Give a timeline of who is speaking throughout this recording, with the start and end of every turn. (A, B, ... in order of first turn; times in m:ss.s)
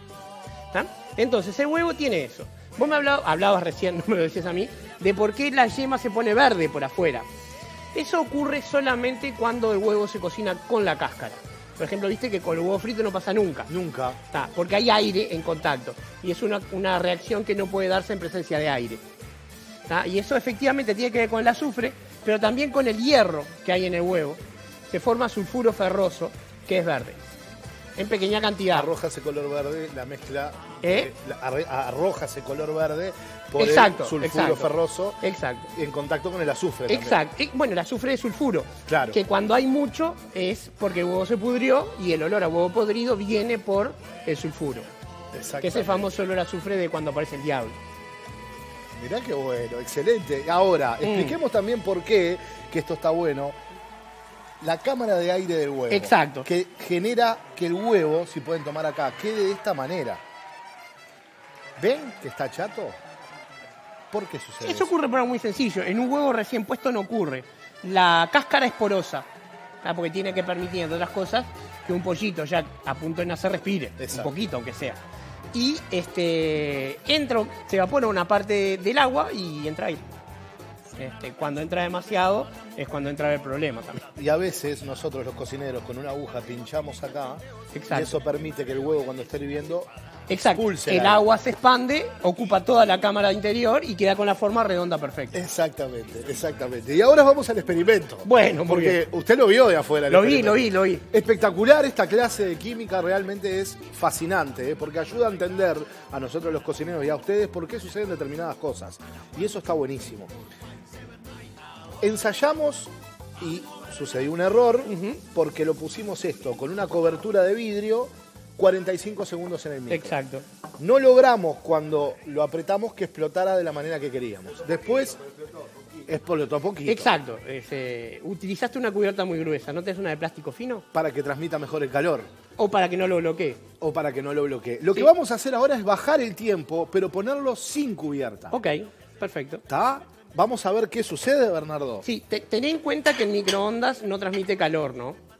0:00.7-0:07.2 A
0:07.9-0:13.7 A
0:13.7-0:14.2 B
0:14.3-0:19.0 A
0:19.9-0:27.2 A
0:28.0-0:28.9 A
0:28.7-0:35.2 B
0:30.8-0:31.1 A
0:33.6-0:35.7 A
0:35.7-0:37.2 B
0:36.9-0:44.9 A
0:38.8-0:39.2 B
0:45.3-0:46.1 B
0:45.6-0:47.7 A
0:49.0-0:53.5 B
0:51.0-0:51.4 A
0:54.6-1:00.2 B
0:55.9-0:56.4 A
1:01.8-1:03.0 B
1:04.1-1:04.9 B
1:04.6-1:09.3 A
1:09.8-1:15.0 A
1:14.0-1:14.3 B
1:15.5-1:20.0 A
1:21.0-1:24.0 A
1:24.1-1:29.9 B
1:27.7-1:28.1 A
1:30.3-1:35.4 A
1:30.5-1:31.2 B
1:35.3-1:50.3 B
1:38.2-1:39.0 A
1:40.1-1:41.0 A
1:52.0-2:00.1 B
1:54.9-1:55.2 A
1:59.9-2:00.4 A
2:00.8-2:05.2 B
2:06.0-2:07.1 B
2:06.9-2:10.8 A
2:10.9-2:12.3 B
2:12.6-2:13.6 A
2:13.8-2:18.5 B
2:18.5-2:19.6 A
2:19.7-2:22.0 B
2:22.0-2:25.2 A